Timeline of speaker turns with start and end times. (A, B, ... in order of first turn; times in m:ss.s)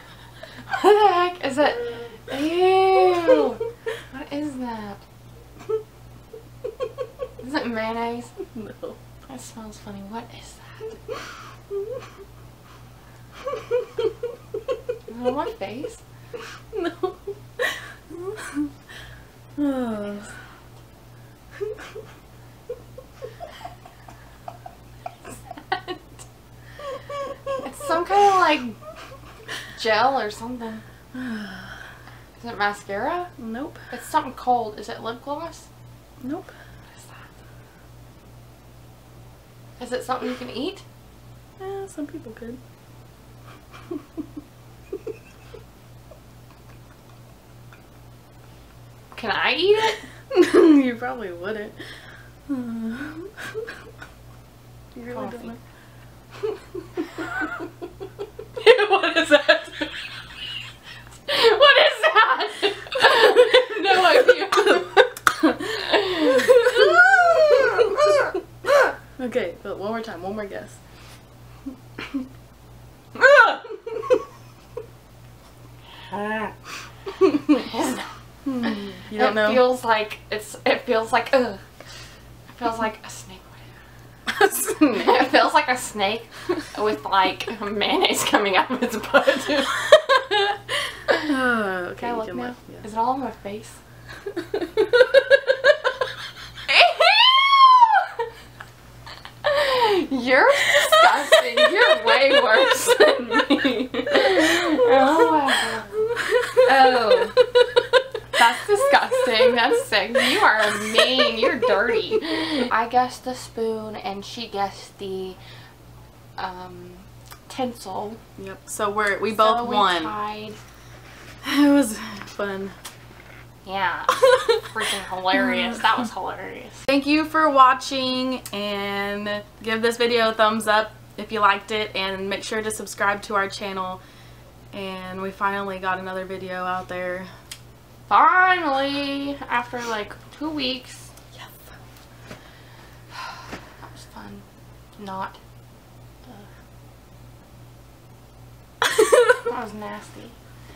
0:00.6-0:05.0 A
0:07.4-0:08.3 A
0:08.5-0:09.0 B
0:09.3-0:10.9 A
0:15.1-0:16.0 A
0:16.7-0:17.3 B
0:18.1-0:18.6 B
0:19.6-0:20.3 B
0:25.5-0:26.0 A
0:27.6-0:28.8 A
0:29.8-0:30.8 A
0:31.1-0:31.8 B
0:32.4-0:33.3 A
0:33.4-0:33.8 B
0:33.9-0:35.7 A
0:36.2-0:36.5 B
0:36.9-0:37.3 A
0:39.8-0:40.8 A
0:41.6-0:42.6 B
0:49.1-0:50.0 A
0:50.3-0:51.8 B
0:52.5-0:53.4 B
0:54.9-0:55.6 B
0:55.1-0:55.6 A
0:58.6-1:00.1 A
1:01.3-1:07.0 A
1:06.3-1:08.1 B
1:09.2-1:10.8 B
1:13.2-1:13.6 B
1:16.1-1:16.5 A
1:17.3-1:18.1 A
1:18.4-1:19.7 B
1:18.6-1:21.6 A
1:22.5-1:23.7 A
1:24.3-1:25.2 B
1:24.8-1:30.0 A
1:31.1-1:32.8 B
1:32.0-1:33.8 A
1:36.7-1:37.9 A
1:39.4-1:47.5 A
1:48.3-1:55.4 A
1:56.4-1:58.2 A
1:58.4-2:00.1 B
1:59.3-2:00.6 A
2:01.4-2:02.7 B
2:03.6-2:06.8 A
2:06.9-2:14.0 B
2:14.7-2:17.3 B
2:18.1-2:21.1 A
2:23.9-2:24.4 A
2:25.0-2:25.4 A
2:29.4-2:30.4 A